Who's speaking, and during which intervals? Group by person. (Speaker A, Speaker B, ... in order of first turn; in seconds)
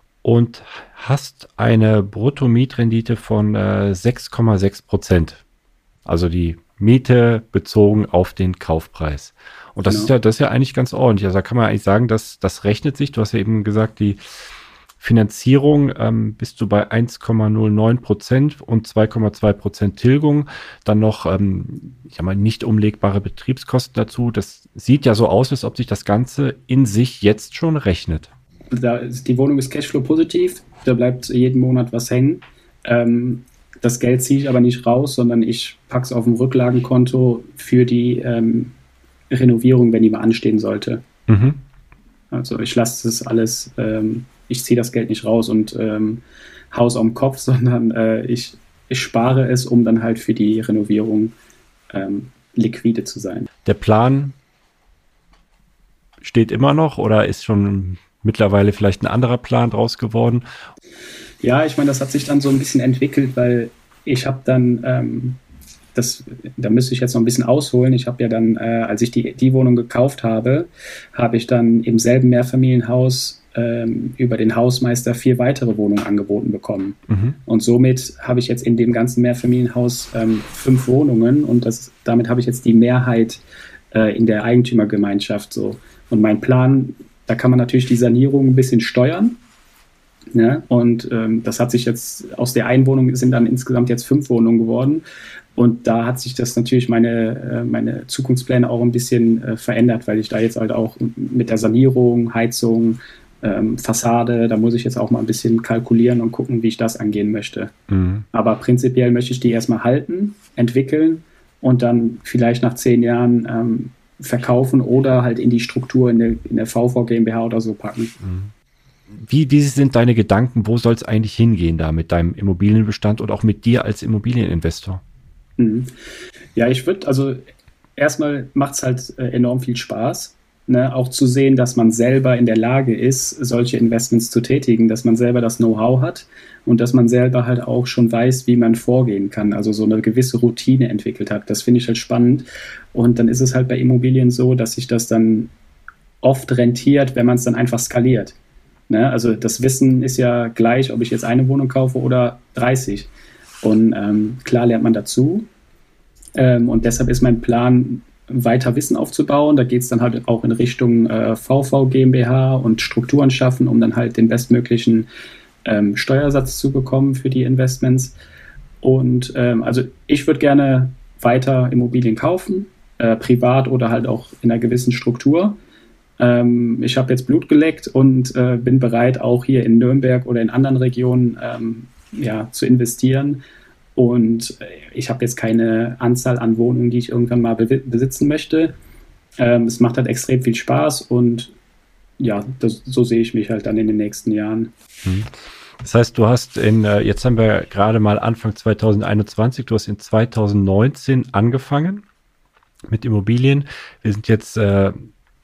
Speaker A: 0.2-5.4, 6.1-14.2, 15.0-28.3, 41.3-41.6, 53.6-54.4, 56.2-60.5, 77.1-77.4, 107.9-108.3, 118.2-118.5, 119.1-125.0, 195.1-202.0, 202.9-205.1
Speaker B: 9.9-10.1, 28.7-38.7, 39.3-41.0, 42.3-51.4, 51.9-53.5, 61.4-65.4, 66.0-89.4, 90.3-95.0, 95.6-107.7, 108.3-118.1, 125.6-125.9, 126.5-127.4, 128.0-145.5, 146.2-148.4, 148.9-153.1, 153.6-155.5, 156.4-165.1, 165.7-168.2, 168.8-175.6, 176.2-183.4, 183.9-188.8, 189.4-191.5, 192.2-194.7